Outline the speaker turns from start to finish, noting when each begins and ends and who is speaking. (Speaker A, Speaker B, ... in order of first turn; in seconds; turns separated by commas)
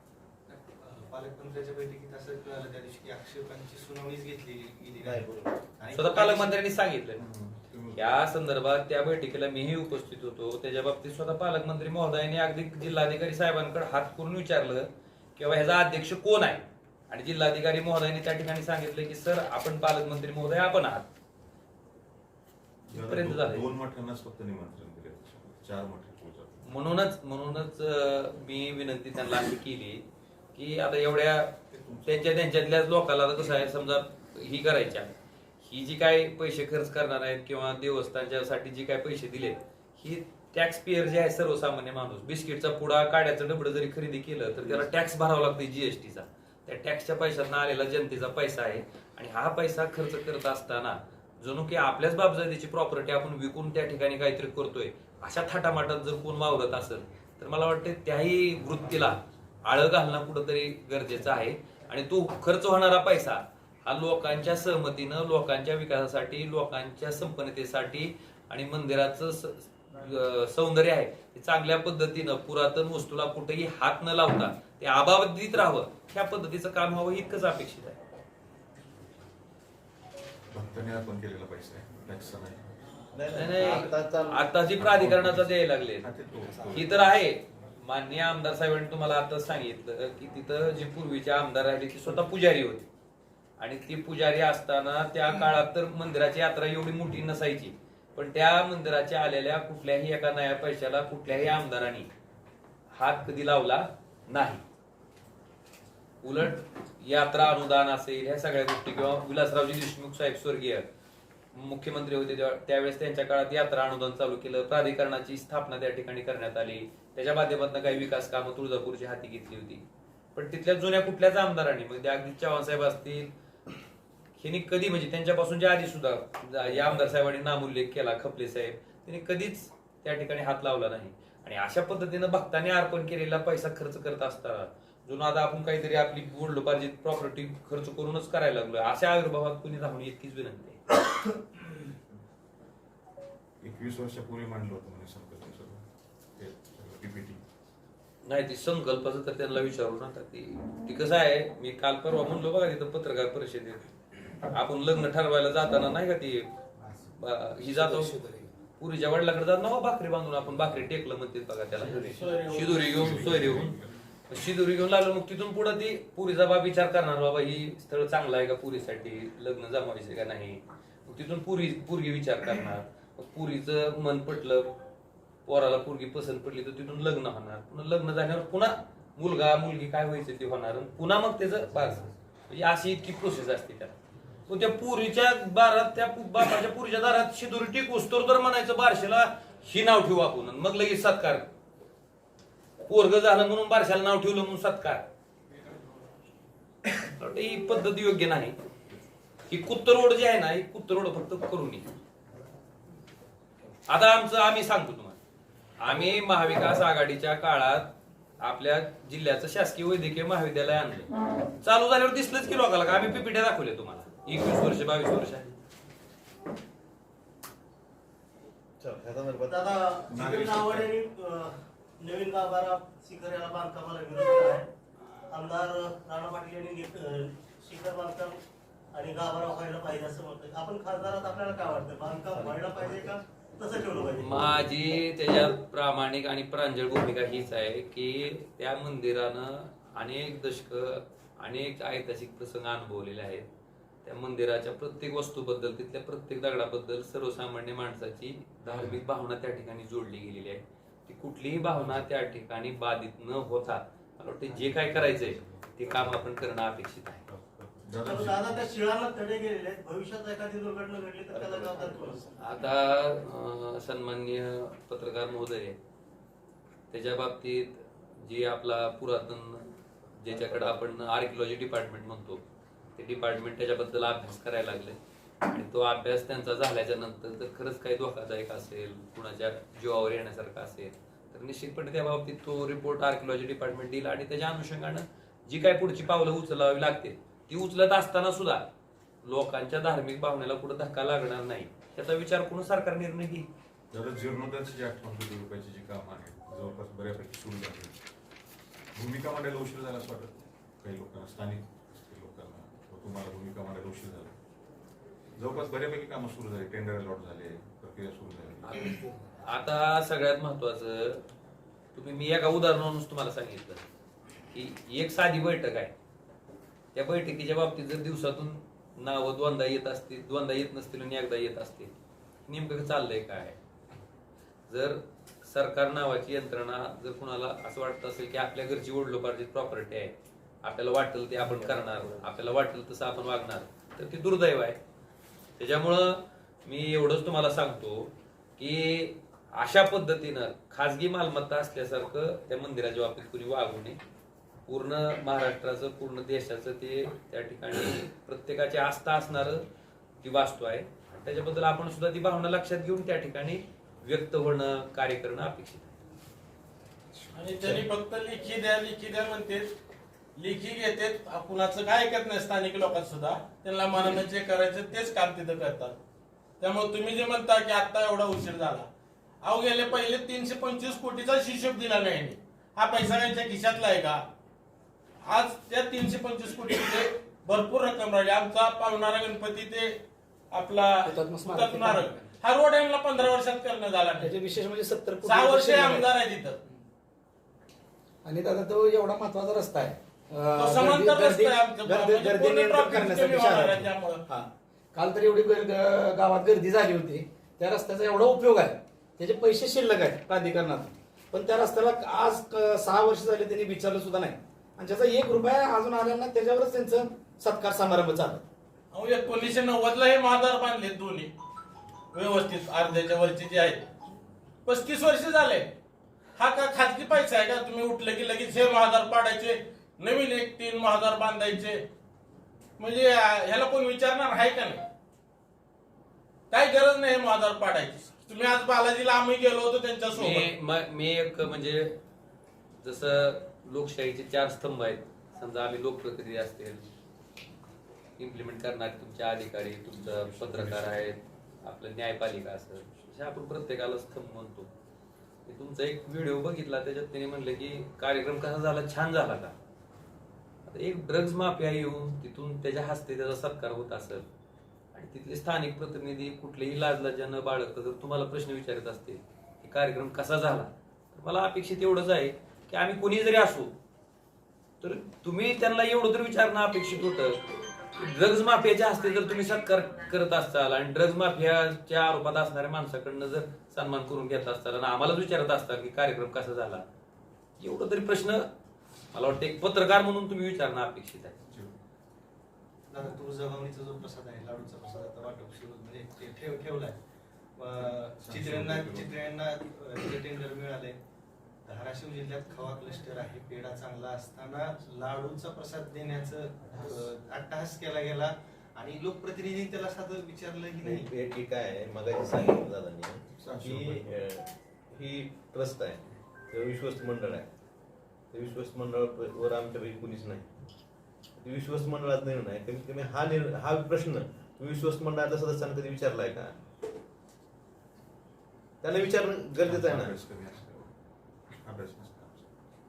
Speaker A: 0.5-6.6, Speaker B: 5.0-5.6, Speaker C: 5.9-7.2, Speaker D: 7.2-8.0, Speaker C: 7.9-21.1, Speaker D: 22.9-26.6, Speaker C: 22.9-23.7, Speaker C: 26.6-30.0, Speaker C: 30.5-35.1, Speaker D: 31.7-32.3, Speaker C: 35.6-78.0, Speaker D: 80.5-82.7, Speaker B: 83.1-84.5, Speaker C: 83.3-86.1, Speaker D: 84.8-87.1, Speaker A: 86.4-87.0, Speaker C: 86.7-92.9, Speaker C: 93.6-102.1, Speaker C: 103.0-104.6, Speaker C: 106.2-110.8, Speaker C: 111.5-119.8, Speaker C: 120.3-123.3, Speaker C: 124.4-140.8, Speaker D: 143.6-147.4, Speaker C: 148.2-153.8, Speaker C: 154.5-156.5, Speaker C: 157.2-158.2, Speaker E: 157.6-158.5, Speaker C: 158.8-163.8, Speaker F: 162.2-162.9, Speaker D: 162.6-164.0, Speaker C: 164.3-174.7, Speaker C: 175.4-183.9, Speaker C: 184.5-191.5, Speaker C: 192.8-195.0, Speaker C: 197.2-198.6, Speaker C: 199.5-201.9, Speaker C: 203.9-205.2, Speaker C: 205.8-211.1, Speaker C: 211.6-215.5, Speaker B: 218.8-219.8, Speaker G: 219.5-224.7, Speaker D: 220.1-220.9, Speaker G: 225.3-228.4, Speaker G: 228.9-234.4, Speaker C: 234.2-243.4, Speaker C: 244.0-257.2, Speaker D: 248.7-249.0, Speaker D: 254.6-256.3, Speaker D: 257.3-258.7, Speaker G: 258.0-262.3, Speaker B: 261.3-262.3, Speaker C: 262.4-265.8, Speaker C: 266.9-272.4, Speaker B: 270.3-270.7, Speaker C: 273.0-288.7, Speaker C: 289.2-293.5, Speaker D: 293.9-298.0, Speaker D: 298.9-304.3, Speaker D: 305.3-308.9, Speaker C: 308.6-311.2, Speaker C: 311.9-313.8, Speaker C: 314.5-315.9, Speaker C: 316.9-321.9, Speaker C: 322.5-323.6, Speaker C: 324.7-334.8, Speaker B: 331.5-332.2, Speaker C: 335.6-344.0, Speaker C: 344.7-349.6, Speaker C: 350.2-355.9, Speaker F: 357.3-359.7, Speaker F: 360.4-365.9, Speaker F: 366.6-368.9, Speaker F: 369.4-374.2, Speaker F: 375.2-380.0, Speaker F: 380.5-384.3, Speaker E: 381.1-382.3, Speaker E: 384.2-386.1, Speaker F: 385.2-386.6, Speaker E: 388.2-408.4, Speaker F: 390.6-394.2, Speaker F: 408.9-411.3, Speaker F: 412.1-413.8, Speaker F: 414.6-415.7, Speaker F: 416.4-421.8, Speaker F: 422.8-424.8, Speaker F: 426.5-430.4, Speaker C: 430.1-431.9, Speaker C: 432.8-436.9, Speaker C: 438.2-444.7, Speaker D: 439.9-441.1, Speaker C: 445.4-449.5, Speaker C: 450.6-454.2, Speaker C: 454.9-463.8, Speaker C: 464.8-467.4, Speaker C: 467.9-476.8, Speaker C: 477.6-478.5, Speaker C: 479.1-481.4, Speaker D: 481.5-481.7, Speaker A: 482.9-487.0, Speaker A: 487.6-491.0, Speaker D: 487.8-489.1, Speaker A: 491.6-501.1, Speaker D: 496.7-497.0, Speaker B: 500.8-507.5, Speaker D: 503.4-504.2, Speaker B: 508.3-510.5, Speaker B: 511.4-516.5, Speaker B: 518.8-520.1, Speaker D: 519.6-520.9, Speaker D: 521.5-522.5